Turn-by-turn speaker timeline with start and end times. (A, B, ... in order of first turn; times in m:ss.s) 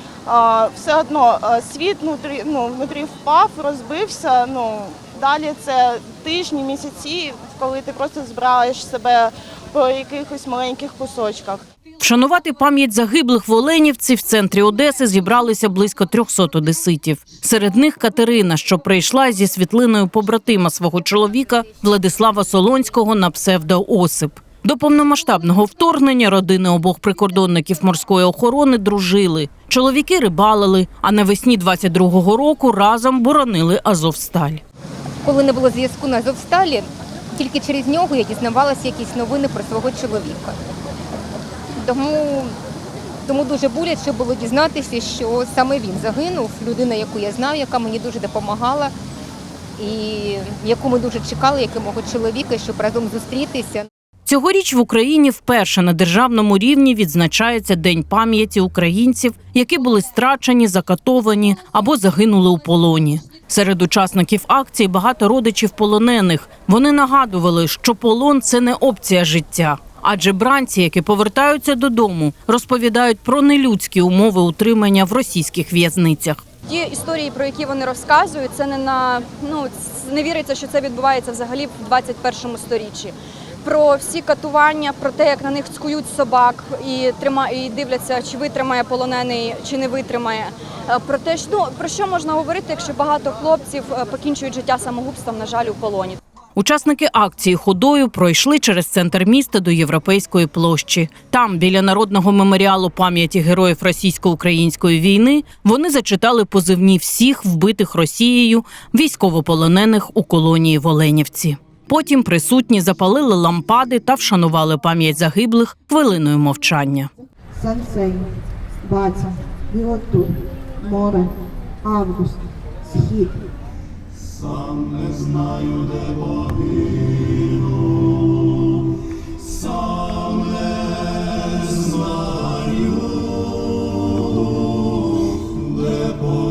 0:00.2-0:11.6 A
0:12.0-0:34.6 B
0:35.2-0:40.6 C
0:41.7-0:42.6 C
0:43.2-0:48.9 C
0:49.8-0:53.9 C
0:54.2-1:16.4 B
1:16.7-1:36.2 D
1:36.6-1:57.1 B
1:57.6-1:58.3 E
1:58.8-2:03.4 E
2:05.1-2:05.3 B